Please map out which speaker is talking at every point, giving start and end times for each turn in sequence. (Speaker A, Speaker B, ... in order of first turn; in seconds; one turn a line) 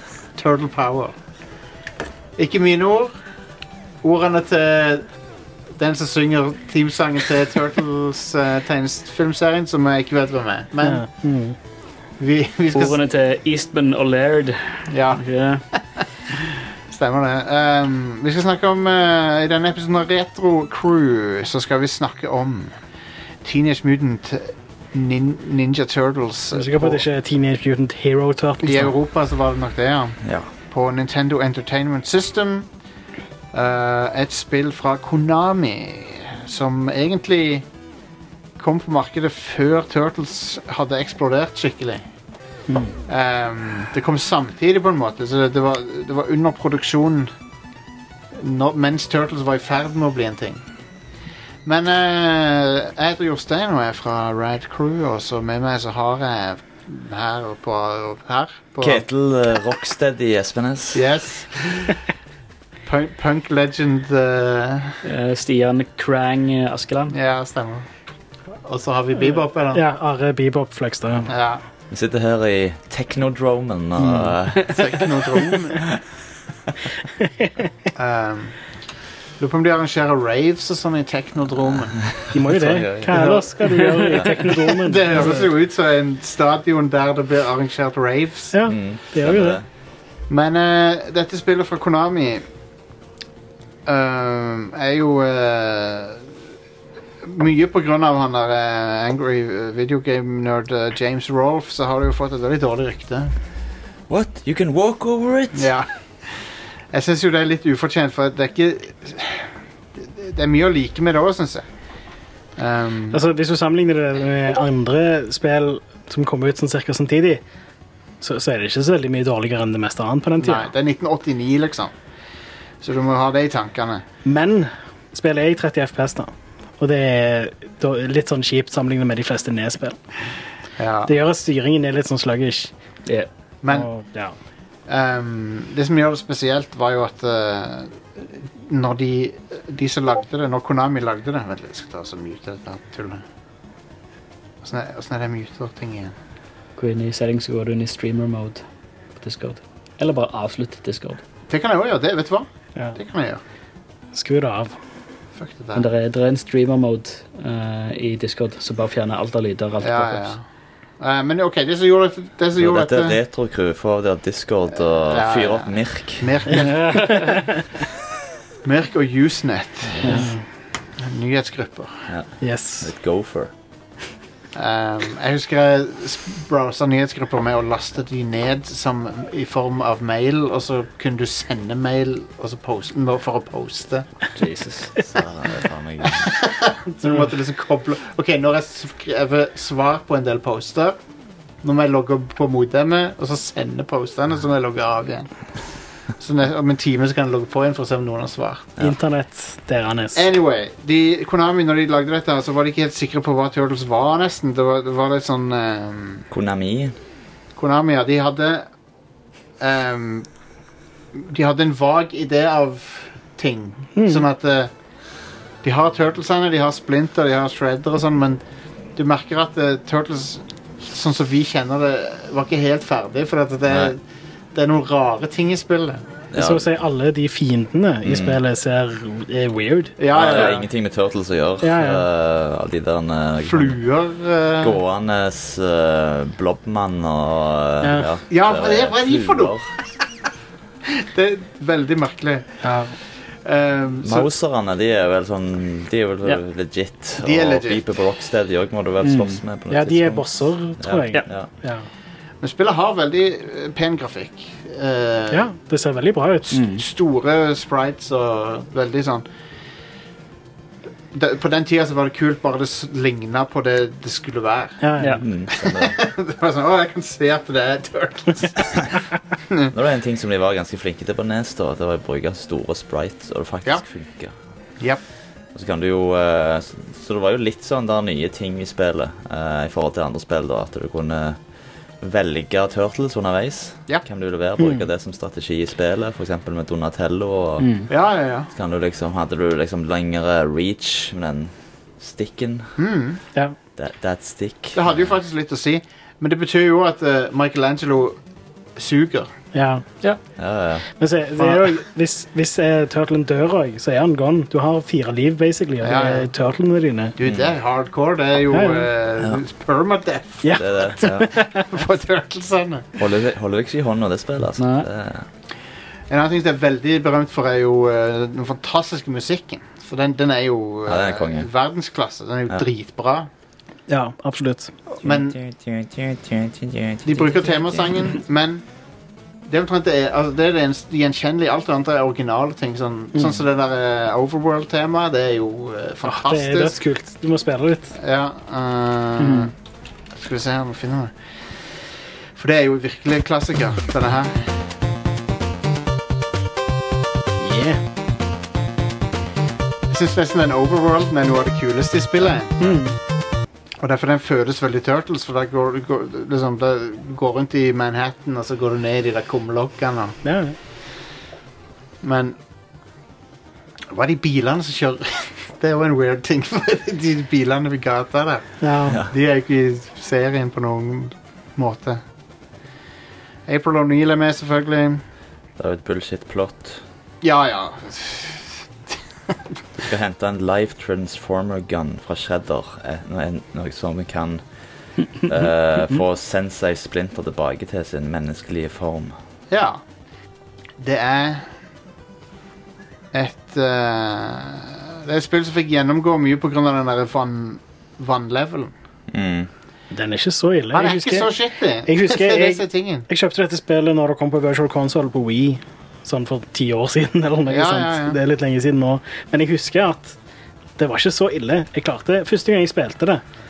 Speaker A: 0.4-1.2
Speaker A: 2.4-3.1
Speaker A: 4.0-5.0
Speaker A: 5.8-11.1
Speaker B: 10.8-11.6
Speaker A: 12.2-12.9
Speaker C: 12.7-15.6
Speaker A: 14.9-15.2
Speaker A: 15.7-16.0
Speaker A: 16.9-22.7
Speaker A: 23.4-27.0
Speaker B: 26.5-28.9
Speaker A: 28.6-32.7
Speaker D: 30.2-30.5
Speaker A: 33.5-37.6
Speaker A: 38.6-42.0
Speaker B: 42.7-42.9
Speaker A: 43.1-47.3
Speaker A: 48.4-50.6
Speaker A: 51.6-59.0
Speaker D: 58.8-61.0
Speaker A: 60.9-62.0
Speaker A: 62.9-65.0
Speaker C: 65.0-67.1
Speaker A: 67.1-67.9
Speaker A: 68.6-69.8
Speaker B: 69.7-71.3
Speaker A: 71.3-71.6
Speaker D: 71.9-74.8
Speaker B: 74.0-74.3
Speaker A: 74.7-75.9
Speaker B: 77.2-77.7
Speaker A: 78.0-78.6
Speaker A: 79.4-82.1
Speaker D: 81.7-83.2
Speaker B: 82.3-85.5
Speaker A: 83.1-83.9
Speaker A: 84.5-88.5
Speaker B: 88.5-89.6
Speaker D: 88.7-89.6
Speaker A: 90.3-92.5
Speaker A: 93.9-96.2
Speaker A: 97.2-103.3
Speaker D: 104.1-105.7
Speaker A: 105.5-105.9
Speaker A: 106.9-109.5
Speaker A: 110.0-111.7
Speaker A: 112.6-113.2
Speaker B: 113.1-117.4
Speaker B: 118.2-120.7
Speaker A: 120.4-121.9
Speaker A: 122.8-124.0
Speaker B: 124.2-130.0
Speaker A: 130.8-131.1
Speaker B: 131.1-132.7
Speaker A: 133.6-133.9
Speaker B: 133.7-134.3
Speaker A: 134.9-143.2
Speaker A: 144.6-146.1
Speaker C: 146.8-148.6
Speaker C: 149.2-151.2
Speaker A: 151.5-153.4
Speaker B: 154.1-154.8
Speaker A: 155.3-155.9
Speaker C: 155.8-160.3
Speaker A: 159.8-160.4
Speaker A: 161.0-163.2
Speaker D: 162.6-166.5
Speaker A: 164.9-167.5
Speaker A: 168.6-170.3
Speaker D: 169.8-170.2
Speaker B: 170.0-170.4
Speaker A: 171.0-172.1
Speaker D: 172.1-173.5
Speaker B: 172.4-172.9
Speaker A: 174.6-184.1
Speaker C: 184.4-184.9
Speaker D: 185.0-186.3
Speaker A: 186.2-191.0
Speaker A: 191.6-195.3
Speaker A: 196.2-198.7
Speaker B: 198.8-200.2
Speaker A: 200.1-206.3
Speaker D: 206.3-206.9
Speaker A: 207.6-208.7
Speaker A: 209.6-210.3
Speaker A: 211.1-214.7
Speaker B: 214.0-214.2
Speaker A: 215.6-218.4
Speaker A: 219.0-224.0
Speaker D: 223.7-223.9
Speaker A: 224.5-226.0
Speaker D: 226.3-226.7
Speaker B: 226.3-230.4
Speaker D: 228.0-228.4
Speaker A: 230.0-230.6
Speaker D: 230.1-233.8
Speaker B: 231.6-232.0
Speaker A: 233.5-234.8
Speaker D: 234.6-239.7
Speaker B: 237.8-238.1
Speaker A: 238.3-239.6
Speaker A: 241.0-242.6
Speaker B: 242.6-242.9
Speaker A: 243.4-244.3
Speaker D: 244.0-251.5
Speaker A: 247.2-247.8
Speaker C: 249.0-249.4
Speaker B: 249.7-251.9
Speaker A: 252.4-255.5
Speaker B: 255.3-256.6
Speaker C: 256.5-256.8
Speaker A: 256.7-259.2
Speaker A: 261.1-264.8
Speaker B: 264.8-265.2
Speaker D: 265.2-265.9
Speaker A: 265.5-269.0
Speaker D: 269.7-274.3
Speaker D: 275.5-281.4
Speaker D: 282.0-287.9
Speaker B: 284.6-284.9
Speaker C: 287.6-287.9
Speaker A: 287.9-288.5
Speaker D: 288.5-292.8
Speaker A: 292.8-293.2
Speaker D: 293.8-295.1
Speaker A: 294.7-298.2
Speaker A: 298.8-299.3
Speaker B: 299.5-299.8
Speaker D: 300.4-300.9
Speaker B: 301.0-307.1
Speaker A: 301.4-301.7
Speaker A: 305.8-306.3
Speaker A: 307.2-312.9
Speaker D: 307.2-307.5
Speaker B: 308.5-308.9
Speaker B: 310.4-311.6
Speaker D: 310.6-311.3
Speaker D: 313.0-315.3
Speaker C: 314.6-314.9
Speaker A: 316.1-323.3
Speaker D: 320.9-321.5
Speaker B: 323.9-324.7
Speaker A: 324.9-325.4
Speaker D: 325.0-327.9
Speaker A: 327.1-328.6
Speaker A: 329.5-336.8
Speaker B: 336.0-337.9
Speaker A: 338.0-339.5
Speaker C: 339.2-339.5
Speaker A: 340.1-341.8
Speaker A: 342.4-344.5
Speaker B: 347.4-347.8
Speaker A: 349.9-352.6
Speaker B: 352.6-352.9
Speaker A: 353.8-360.2
Speaker B: 360.2-360.6
Speaker A: 362.0-362.4
Speaker A: 363.9-372.0
Speaker B: 368.6-369.0
Speaker D: 368.9-369.1
Speaker A: 373.5-375.0
Speaker D: 375.6-376.8
Speaker A: 377.2-378.5
Speaker D: 379.9-384.4
Speaker D: 385.2-389.1
Speaker A: 389.5-389.8
Speaker A: 390.8-391.5
Speaker A: 393.1-398.7
Speaker D: 399.1-399.5
Speaker B: 399.9-401.3
Speaker A: 400.7-403.1
Speaker B: 401.9-410.2
Speaker A: 407.5-408.2
Speaker B: 410.8-413.2